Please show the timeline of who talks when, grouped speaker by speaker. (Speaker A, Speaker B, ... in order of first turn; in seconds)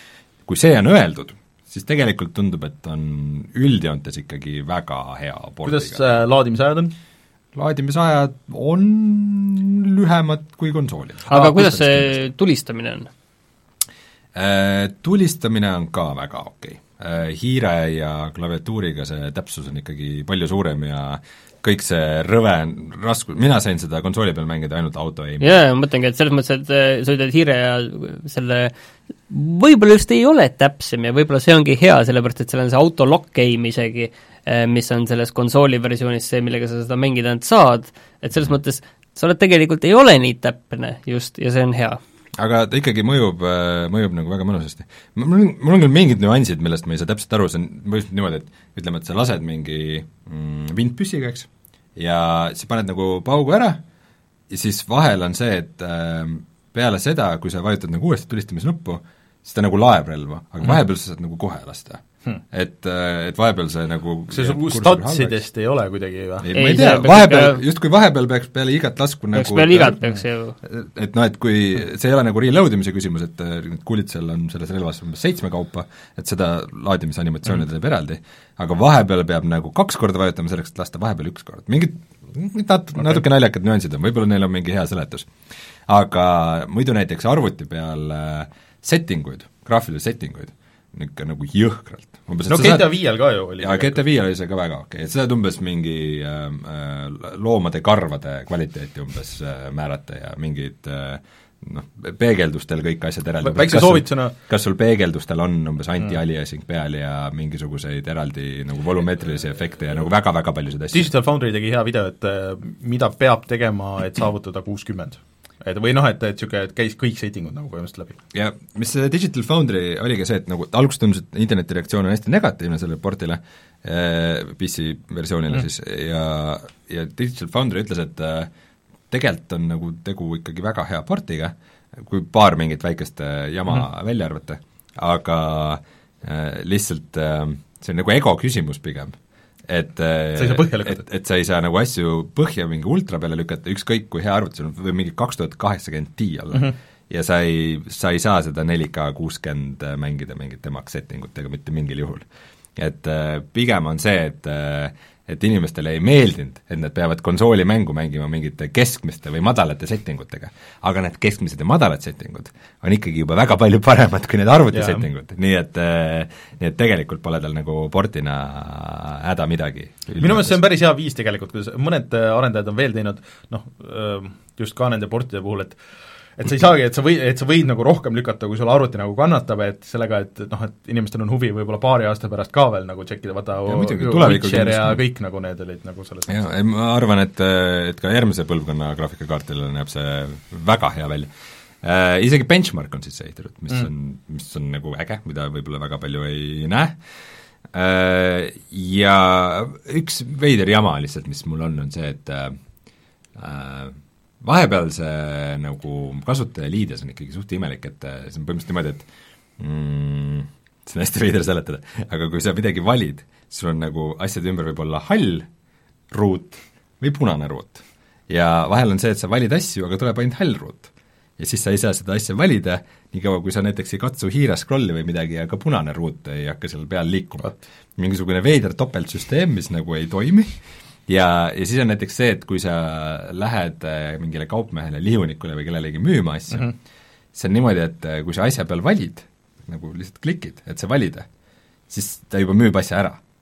Speaker A: 0.5-6.0, 7.5-12.2, 14.3-25.6, 42.4-53.8, 54.5-65.4, 66.4-70.0, 70.6-85.3, 85.9-92.9, 93.6-111.1, 118.3-128.5, 129.1-170.6, 183.7-185.0, 186.3-191.3, 191.8-197.0, 197.7-202.6, 203.3-209.1, 209.6-215.5, 216.1-230.5, 231.1-236.7, 237.3-241.3, 241.9-243.2
Speaker B: 5.6-6.9, 64.3-66.5, 92.5-94.0, 103.4-104.3, 110.9-118.2, 140.3-141.0, 164.7-165.0, 170.2-175.8, 176.4-186.4
Speaker C: 11.3-13.1, 25.4-28.7, 29.3-42.0, 66.5-67.6, 69.3-70.5